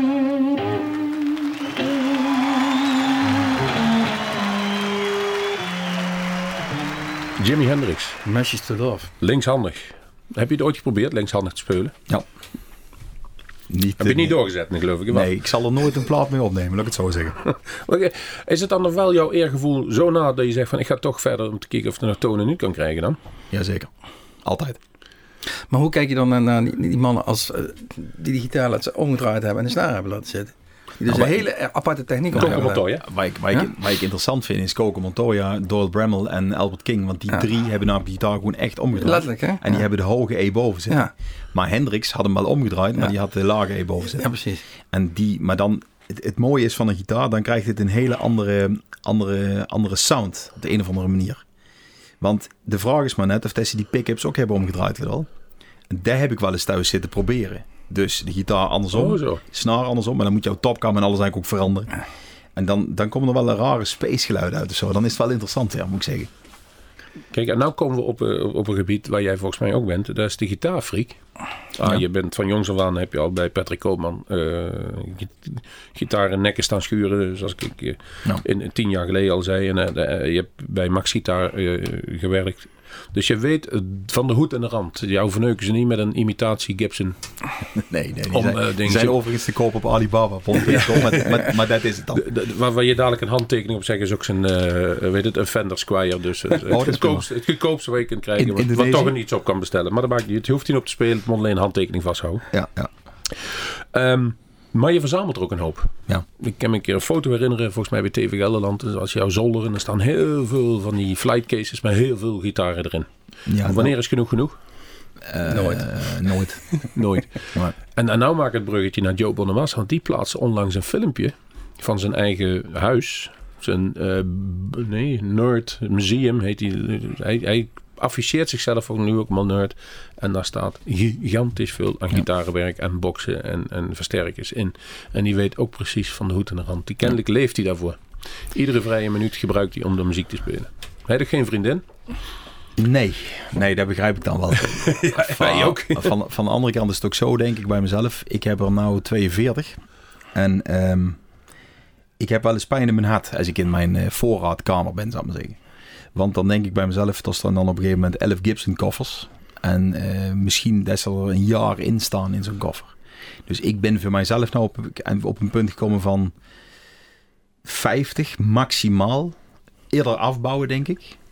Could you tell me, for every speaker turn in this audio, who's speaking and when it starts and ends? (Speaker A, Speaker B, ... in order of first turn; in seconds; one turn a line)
Speaker A: 7.4-8.2
Speaker B: 8.2-9.1
Speaker A: 9.2-11.9
Speaker C: 13.7-14.4
Speaker A: 14.0-15.3
Speaker C: 15.1-17.4
Speaker A: 17.5-23.2
Speaker C: 23.5-23.9
Speaker C: 24.4-24.8
Speaker B: 25.7-32.9
Speaker C: 31.1-31.5
Speaker A: 32.3-33.0
Speaker C: 32.4-44.3
Speaker B: 39.0-39.8
Speaker B: 44.1-44.6
Speaker C: 44.9-51.4
Speaker C: 52.2-55.3
Speaker C: 55.9-61.9
Speaker A: 58.9-59.4
Speaker C: 62.5-66.3
Speaker A: 67.3-71.2
Speaker A: 71.7-87.2
Speaker C: 87.7-92.2
Speaker A: 88.3-89.2
Speaker A: 90.7-91.3
Speaker A: 92.1-102.5
Speaker C: 96.7-97.3
Speaker C: 98.4-99.1
Speaker C: 102.5-102.9
Speaker A: 103.4-113.1
Speaker C: 113.5-114.0
Speaker A: 113.6-114.5
Speaker C: 115.2-116.6
Speaker B: 115.5-115.9
Speaker A: 116.9-138.0
Speaker A: 138.5-141.8
Speaker C: 142.8-149.8
Speaker A: 144.7-146.1
Speaker C: 150.3-151.2
Speaker C: 152.2-155.6
Speaker C: 156.1-162.9
Speaker C: 163.5-166.3
Speaker C: 167.6-169.4
Speaker C: 169.9-171.2